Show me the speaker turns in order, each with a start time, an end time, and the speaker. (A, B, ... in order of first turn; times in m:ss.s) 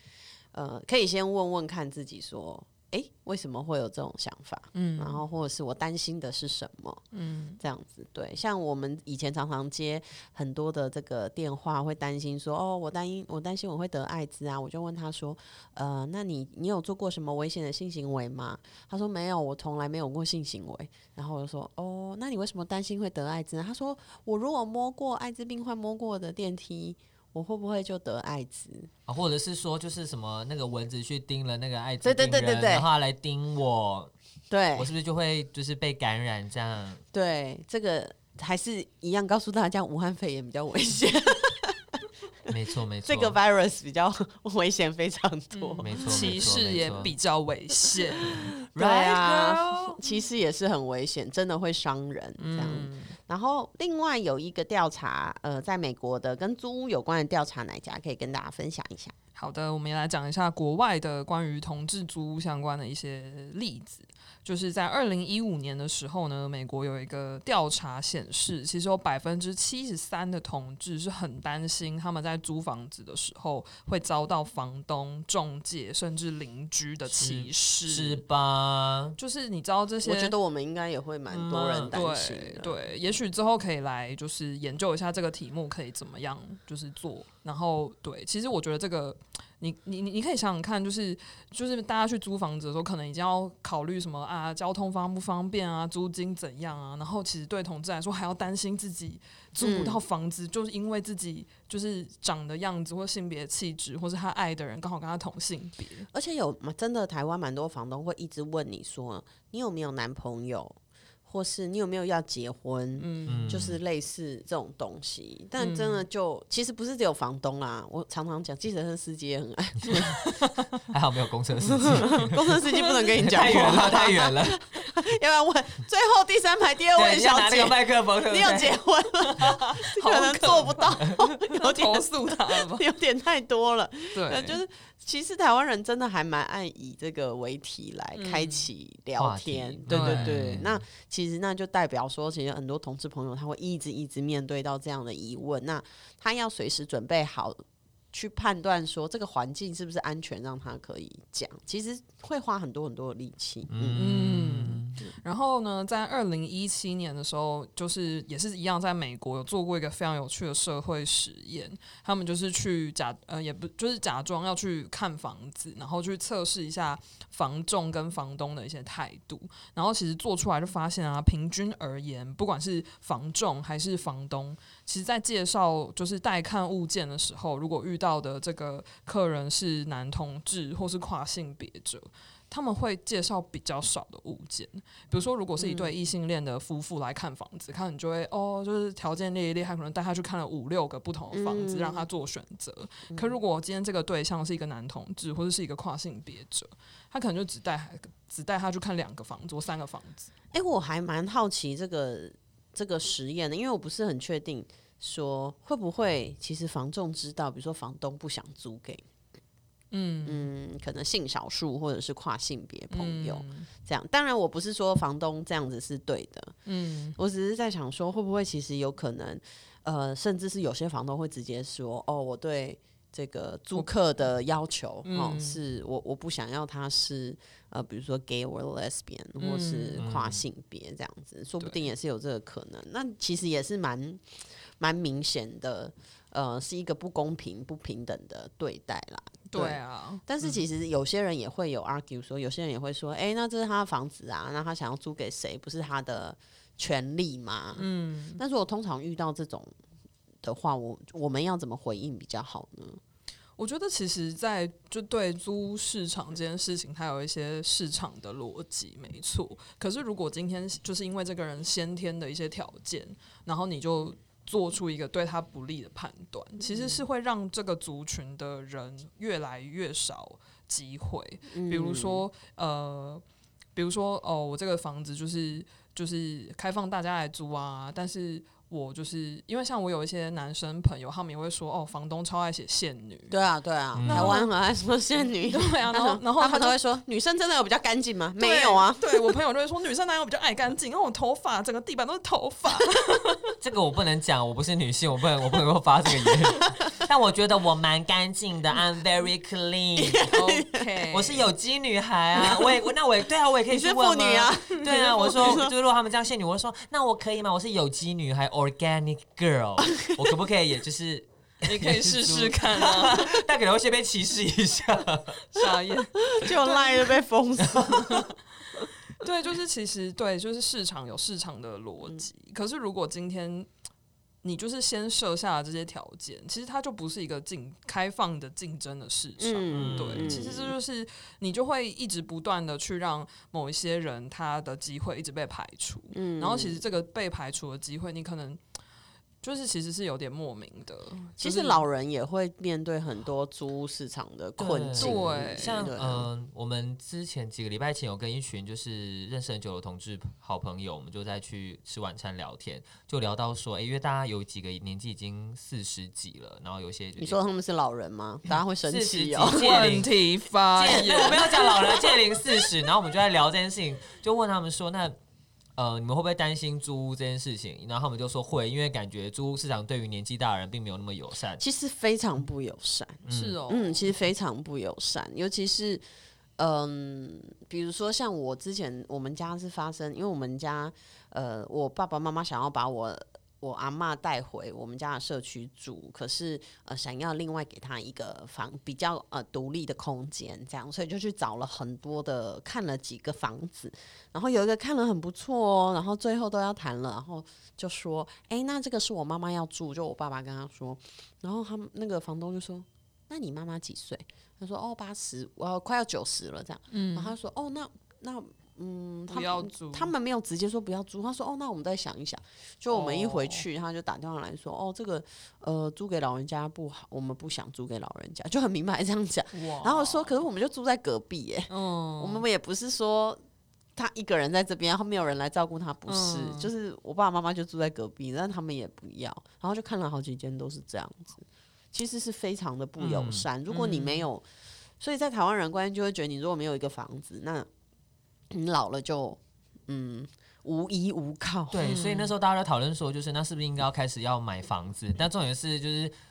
0:00.5-0:07.0 A
0:04.7-0:05.2 B
0:07.1-0:07.6 B
0:07.6-0:28.9 A
0:29.1-0:34.1 C
0:32.0-0:32.8 A
0:34.5-0:34.9 A
0:34.7-0:37.0 C
0:37.1-0:42.0 A
0:42.5-0:43.4 C
0:43.0-0:45.9 A
0:45.5-0:48.5 B
0:45.8-0:47.1 C
0:48.2-0:59.1 A
0:48.7-0:50.0 C
0:52.4-0:53.1 B
0:59.4-1:18.2 B
1:17.1-1:19.2 C
1:19.2-1:20.3 B
1:20.0-1:22.8 A
1:21.3-1:46.1 B
1:21.6-1:21.9 C
1:39.6-1:40.0 A
1:46.1-2:00.2 A
1:53.0-1:53.6 B
1:53.3-1:53.8 C
1:55.6-1:56.0 B
1:59.9-2:00.6 B
2:00.9-2:02.4 C
2:01.7-2:27.6 A
2:02.7-2:03.9 B
2:03.2-2:04.6 C
2:06.9-2:08.8 C
2:09.3-2:12.8 B
2:14.1-2:14.6 B
2:18.1-2:18.7 B
2:19.2-2:20.8 C
2:19.9-2:20.5 B
2:28.1-2:34.0 A
2:33.7-2:35.0 C
2:34.0-3:20.3 B
3:05.6-3:06.0 A
3:11.3-3:12.1 A
3:13.1-3:13.3 A
3:20.5-3:29.0 A
3:29.9-3:30.5 B
3:30.2-3:36.5 A
3:32.9-3:33.7 B
3:36.6-3:37.2 B
3:37.2-4:07.8 A
3:45.0-3:45.6 B
3:49.4-3:50.0 B
3:50.0-3:50.4 C
3:59.5-4:00.6 B
4:07.8-4:08.4 B
4:08.4-4:09.7 A
4:10.4-4:13.0 A
4:13.6-4:33.2 B
4:26.6-4:27.0 A
4:31.5-4:32.2 A
4:33.8-4:43.3 B
4:43.3-4:49.3 A
4:43.9-4:44.4 C
4:44.0-4:44.5 B
4:45.4-4:46.8 B
4:48.4-4:53.4 B
4:53.6-5:00.3 C
5:00.0-5:00.9 A
5:00.3-5:01.5 B
5:01.1-5:15.4 C
5:03.7-5:05.7 A
5:04.9-5:05.6 B
5:11.6-5:13.4 B
5:15.5-5:17.2 B
5:16.3-5:18.3 A
5:17.6-5:18.2 C
5:19.2-5:23.7 B
5:24.4-5:38.6 B
5:29.4-5:30.8 A
5:29.7-5:30.4 C
5:36.1-5:36.8 A
5:39.4-5:41.8 B
5:41.4-5:46.3 A
5:44.6-5:57.4 C
5:45.0-5:45.9 B
5:57.2-6:00.0 A
5:58.8-6:00.1 C
5:59.5-6:01.9 B
6:00.8-6:05.1 C
6:05.8-6:11.6 C
6:11.6-6:16.0 A
6:13.3-6:13.6 C
6:13.3-6:14.1 B
6:16.6-7:03.4 A
6:46.9-6:47.3 B
6:49.3-6:50.1 B
6:52.9-6:53.6 B
6:59.5-7:00.3 B
7:01.7-7:02.4 B
7:04.0-7:14.4 A
7:06.1-7:06.7 B
7:13.0-7:13.4 C
7:13.7-7:14.3 B
7:15.0-7:17.7 A
7:18.5-7:21.9 A
7:21.7-7:26.1 C
7:21.8-7:22.3 B